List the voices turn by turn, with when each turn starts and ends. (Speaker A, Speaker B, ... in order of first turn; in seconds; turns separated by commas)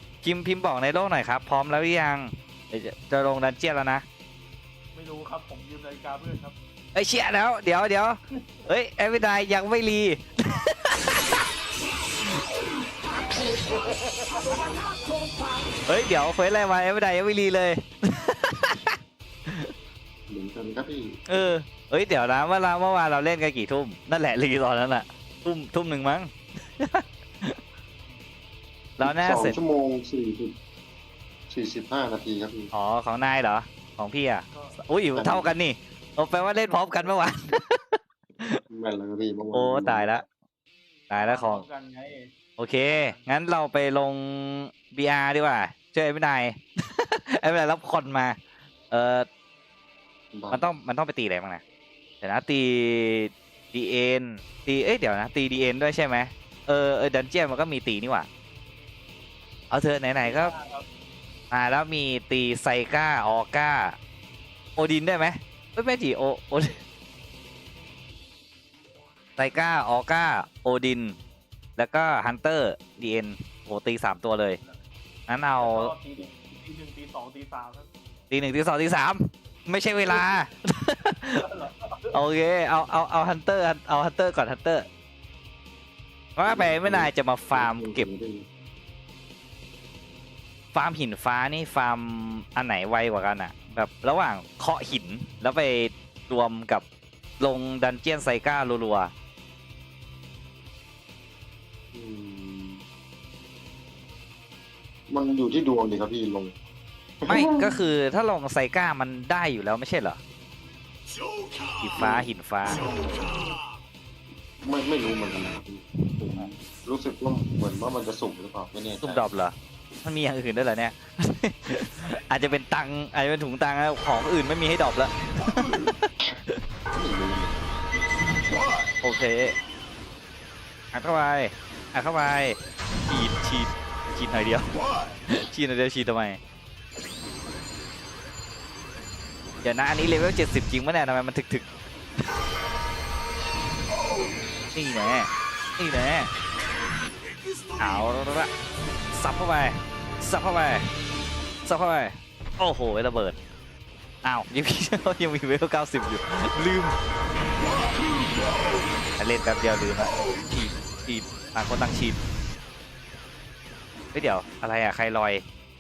Speaker A: 0.2-4.0, Speaker B: 4.9-6.5, Speaker A: 6.9-11.2, Speaker B: 14.2-14.6, Speaker A: 15.9-18.9, Speaker C: 20.3-21.2, Speaker A: 21.3-27.6, Speaker A: 29.0-29.6, Speaker C: 29.0-30.5, Speaker C: 31.5-32.7, Speaker A: 32.7-38.5, Speaker B: 34.5-34.8, Speaker C: 35.1-35.5, Speaker C: 38.7-40.1, Speaker A: 39.5-40.2, Speaker A: 41.1-41.6, Speaker B: 41.2-42.3, Speaker A: 42.6-48.4, Speaker B: 42.8-43.3, Speaker A: 48.9-49.3, Speaker C: 50.3-50.7, Speaker A: 50.5-51.6, Speaker A: 52.2-58.3, Speaker A: 59.7-60.5, Speaker B: 60.2-60.9, Speaker A: 61.5-64.0, Speaker A: 64.8-66.8, Speaker A: 69.4-71.2, Speaker A: 71.8-74.6, Speaker A: 75.3-75.9, Speaker B: 75.6-77.9, Speaker A: 78.3-81.4, Speaker B: 81.4-82.0, Speaker A: 82.1-84.9, Speaker A: 86.4-88.1, Speaker C: 86.5-88.5, Speaker A: 90.7-96.8, Speaker A: 97.4-99.1, Speaker C: 101.9-102.8, Speaker C: 105.1-106.5, Speaker C: 107.2-107.8, Speaker A: 107.3-110.2, Speaker A: 111.8-112.9, Speaker C: 112.0-112.3, Speaker C: 114.6-119.2, Speaker A: 119.0-125.9, Speaker C: 126.9-127.6, Speaker A: 129.0-129.6, Speaker A: 130.9-134.7, Speaker A: 135.3-136.4, Speaker A: 139.6-141.7, Speaker A: 144.7-146.3, Speaker A: 147.8-148.5, Speaker A: 149.1-150.8, Speaker A: 151.6-153.4, Speaker A: 154.2-157.0, Speaker A: 159.2-162.2, Speaker A: 164.1-165.4